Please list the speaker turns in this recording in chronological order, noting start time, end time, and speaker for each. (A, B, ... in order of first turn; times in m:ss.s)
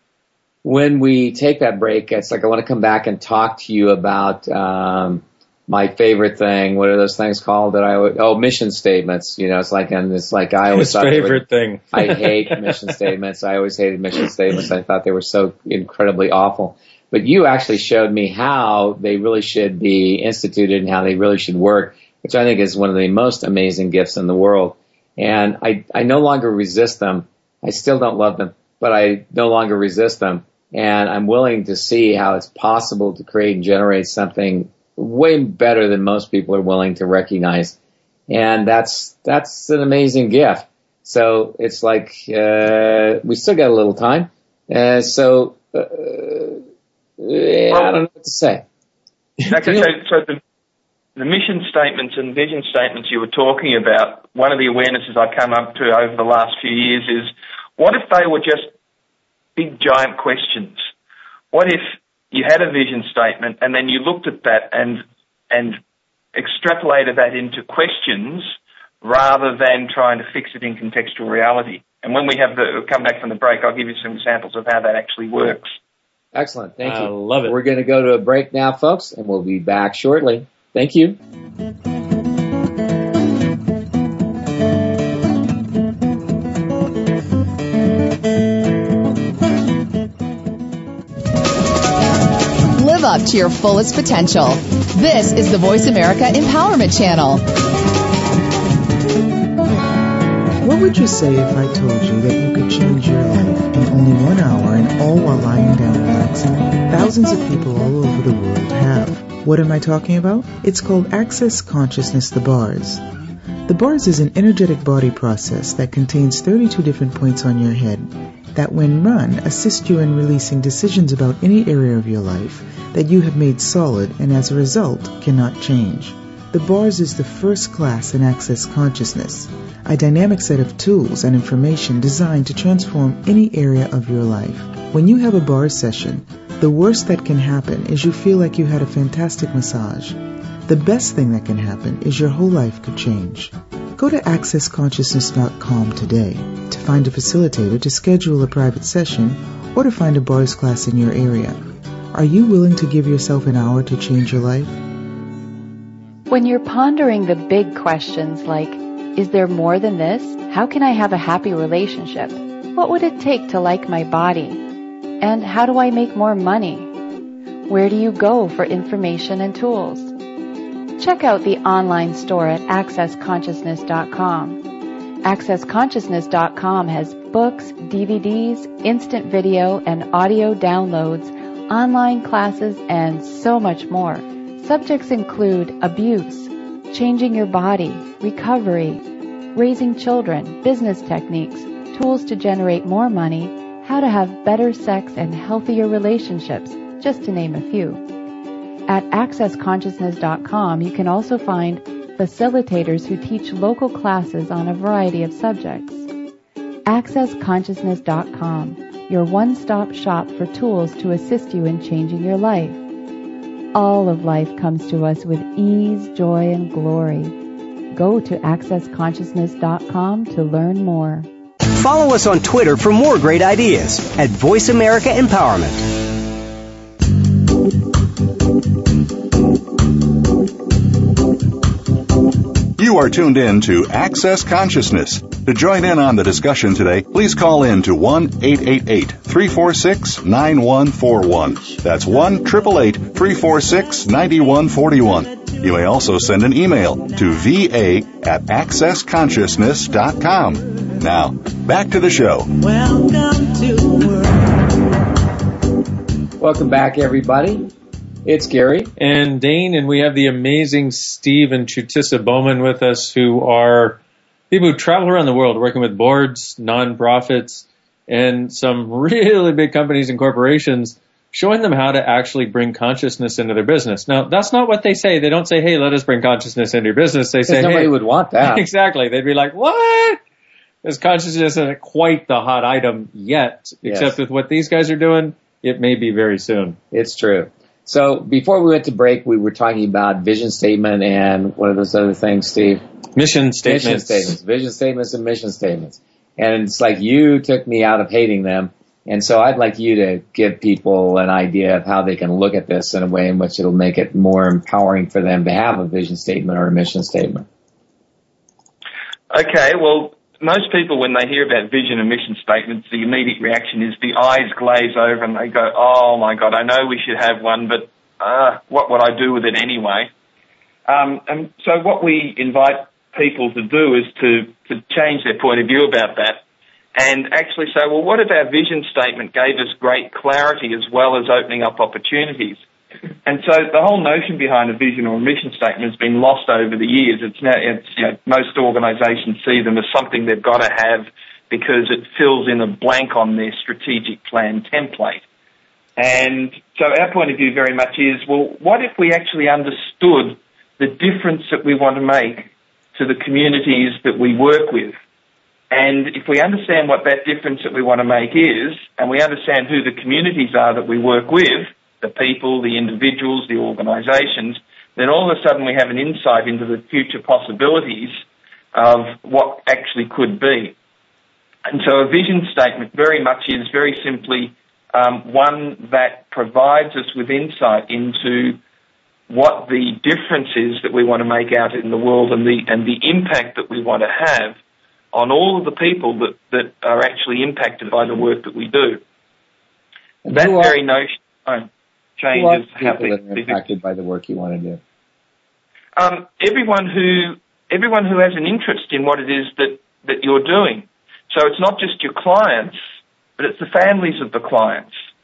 0:00.6-0:37.8 A
0:10.7-0:12.8 B
0:38.3-0:46.6 A
0:47.2-0:48.6 A
0:49.5-0:50.4 C
0:51.2-0:58.7 C
0:59.6-1:00.8 C
1:01.5-1:05.8 C
1:06.3-1:15.7 C
1:16.3-1:21.2 A
1:16.8-1:17.5 B
1:32.7-1:37.4 D
1:40.6-1:53.0 E
1:53.6-2:31.6 E
2:32.1-2:34.8 E
2:36.3-2:44.6 F
2:45.2-2:46.9 F
2:47.7-2:50.1 F
2:51.0-2:54.6 F
2:55.2-3:09.0 F
3:09.5-3:18.0 F
3:18.9-3:26.0 F
3:26.8-3:32.8 F
3:33.7-3:37.3 F
3:37.9-3:41.3 F
3:41.7-3:45.8 G
3:52.8-4:12.5 H
4:05.3-4:05.9 I
4:12.5-4:14.7 I
4:16.4-4:17.7 A
4:18.2-4:18.9 A
4:19.0-4:24.0 B
4:24.5-4:37.9 B
4:37.4-4:38.6 A
4:38.4-4:40.2 B
4:40.8-4:46.8 B
4:43.8-4:44.2 A
4:46.9-4:52.8 A
4:53.1-4:54.4 B
4:53.6-5:07.4 A
5:09.3-5:20.1 C
5:20.8-5:26.4 C
5:26.9-5:32.6 C
5:33.2-5:45.2 C
5:46.0-5:55.0 C
5:55.7-6:08.2 C
6:08.7-6:10.7 C
6:11.6-6:18.6 C
6:19.3-6:24.6 C
6:25.1-6:29.0 C
6:30.2-6:30.8 A
6:30.3-6:33.6 C
6:32.3-6:34.8 A
6:36.0-6:42.8 C
6:43.4-6:44.9 C